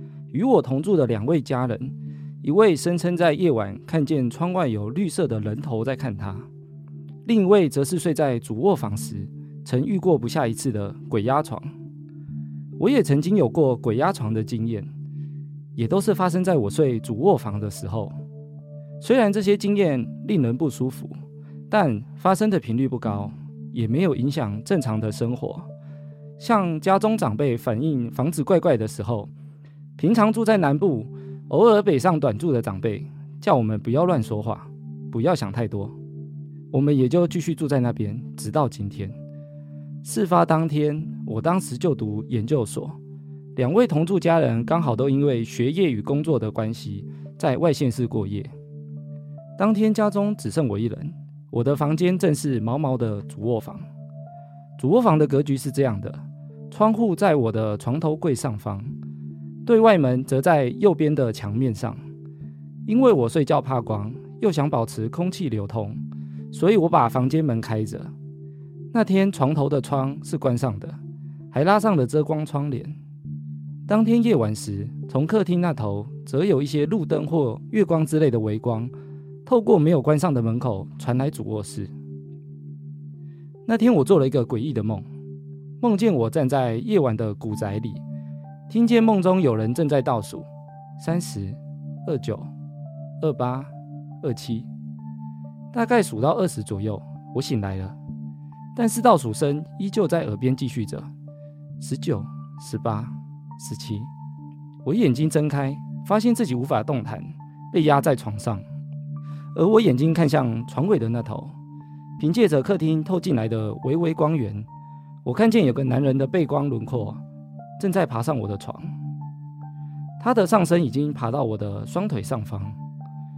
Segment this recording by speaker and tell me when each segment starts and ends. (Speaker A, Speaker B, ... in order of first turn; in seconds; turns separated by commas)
Speaker A: 0.3-6.5, Speaker A: 7.2-11.7, Speaker A: 12.8-14.9, Speaker A: 15.8-18.1, Speaker A: 19.0-21.1, Speaker A: 21.7-25.6, Speaker A: 26.4-29.3, Speaker A: 30.0-35.9, Speaker A: 36.7-39.1, Speaker A: 40.0-43.0, Speaker A: 43.5-48.5, Speaker A: 49.6-53.8, Speaker A: 54.8-58.9, Speaker A: 59.6-62.0, Speaker A: 62.9-68.1, Speaker A: 68.9-71.0, Speaker A: 71.5-72.9, Speaker A: 73.9-78.9, Speaker A: 79.5-81.9, Speaker A: 83.7-85.1, Speaker A: 85.8-88.0, Speaker A: 88.7-90.5, Speaker A: 91.0-92.5, Speaker A: 93.2-93.7, Speaker A: 94.2-94.7, Speaker A: 95.7-98.0, Speaker A: 98.8-101.1, Speaker A: 101.8-104.1, Speaker A: 104.8-108.6, Speaker A: 109.5-111.5, Speaker A: 112.2-114.7, Speaker A: 115.2-117.2, Speaker A: 117.8-118.9, Speaker A: 120.2-122.8